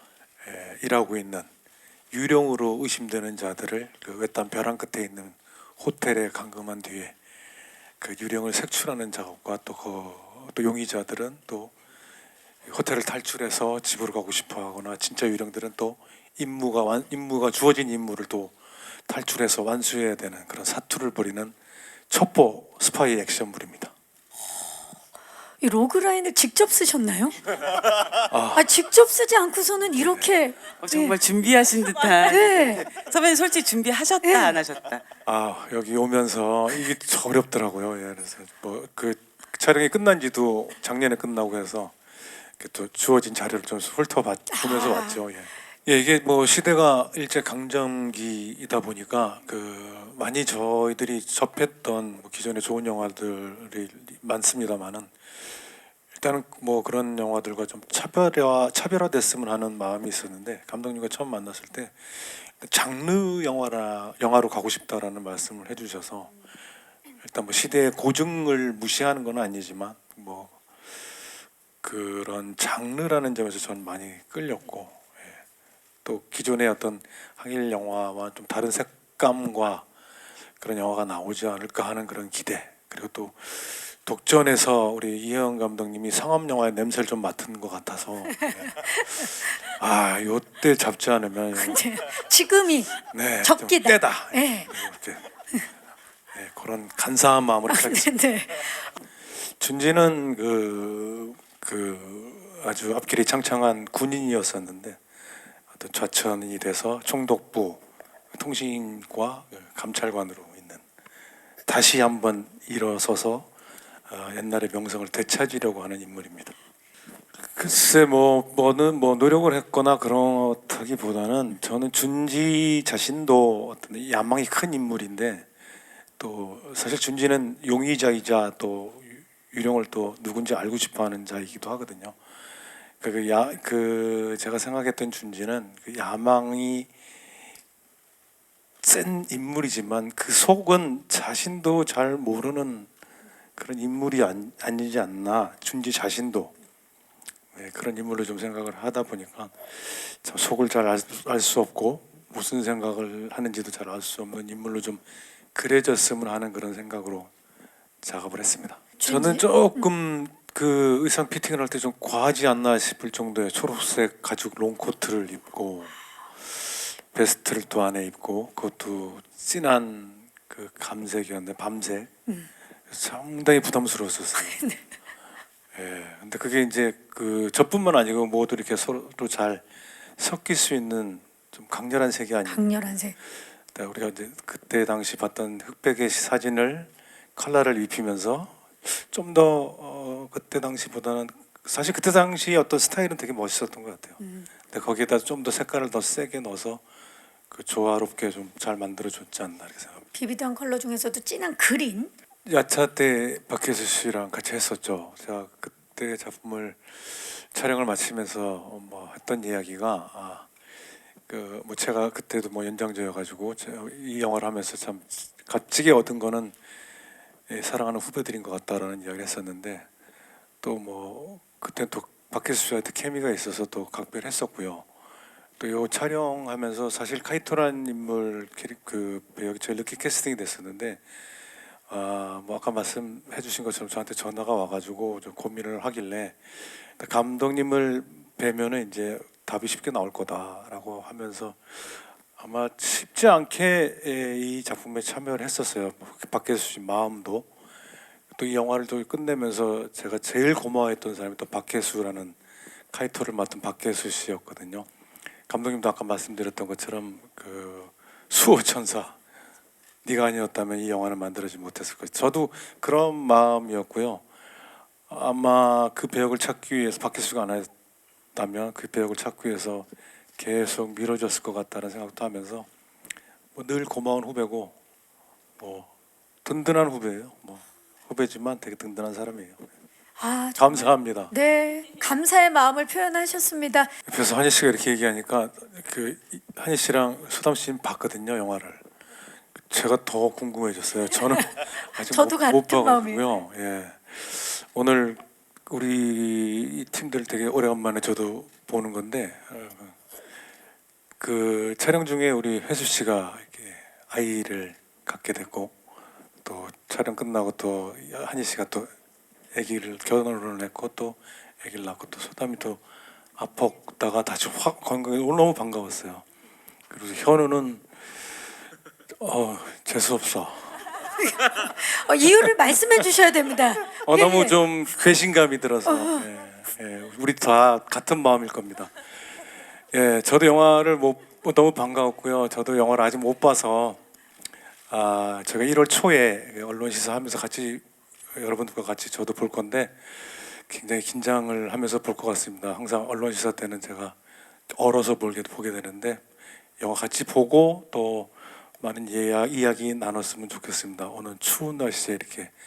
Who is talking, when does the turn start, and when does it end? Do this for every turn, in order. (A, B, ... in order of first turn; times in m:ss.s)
0:00.4-0:01.5 A
0:02.1-0:07.2 A
0:08.0-0:11.7 A
0:12.7-0:21.6 A
0:22.1-0:23.9 A
0:25.6-0:27.4 B
0:28.3-0:28.7 A
0:28.5-0:31.2 B
0:30.0-0:30.3 A
0:30.8-0:35.0 C
0:32.2-0:32.9 B
0:34.2-0:34.6 B
0:35.2-0:42.0 A
0:42.6-0:55.5 A
0:44.5-0:45.2 B
0:56.2-1:06.3 A
1:07.2-1:10.6 A
1:11.8-1:15.4 A
1:16.0-1:19.9 A
1:20.6-1:31.8 A
1:28.6-1:28.9 B
1:31.6-1:34.7 B
1:33.1-1:35.2 A
1:36.3-1:38.1 A
1:37.7-1:38.9 B
1:39.3-1:45.0 A
1:45.7-1:47.8 A
1:48.3-1:50.8 A
1:51.6-1:53.5 A
1:54.1-1:56.6 A
1:57.5-2:05.5 A
2:06.2-2:12.2 A
2:13.0-2:16.9 A
2:18.8-2:22.9 A
2:23.6-2:26.5 A
2:27.5-2:35.0 A
2:35.5-2:37.3 A
2:38.0-2:45.9 A
2:39.0-2:39.4 B
2:46.5-2:52.1 A
2:52.9-2:54.6 A
2:54.4-2:54.8 B
2:55.7-2:59.6 A
3:00.2-3:02.7 A
3:02.5-3:03.2 B
3:03.7-3:16.8 A
3:14.2-3:14.5 B
3:17.5-3:20.1 A
3:20.1-3:22.1 B
3:22.5-3:30.5 A
3:31.3-3:36.6 A
3:37.5-3:39.9 A
3:40.6-3:44.8 A
3:45.6-3:51.0 A
3:51.9-4:07.5 A
4:08.3-4:12.4 A
4:12.9-4:14.9 A
4:15.5-4:19.2 A
4:20.0-4:24.2 A
4:25.1-4:27.7 A
4:28.3-4:32.7 A
4:33.5-4:34.7 A
4:35.6-4:35.9 A
4:36.4-4:39.6 A
4:40.2-4:43.9 B
4:40.6-4:41.3 A
4:44.1-4:48.8 A
4:49.6-5:00.0 A
4:52.0-4:53.2 B
5:01.2-5:05.8 A
5:06.4-5:08.9 A
5:09.5-5:12.8 A
5:13.4-5:16.2 A
5:16.9-5:17.9 A
5:19.2-5:20.9 A
5:21.7-5:24.6 B
5:24.0-5:28.9 A
5:25.8-5:26.2 B
5:29.9-5:34.0 A
5:34.9-5:44.1 A
5:44.7-5:46.2 A
5:46.8-5:52.5 A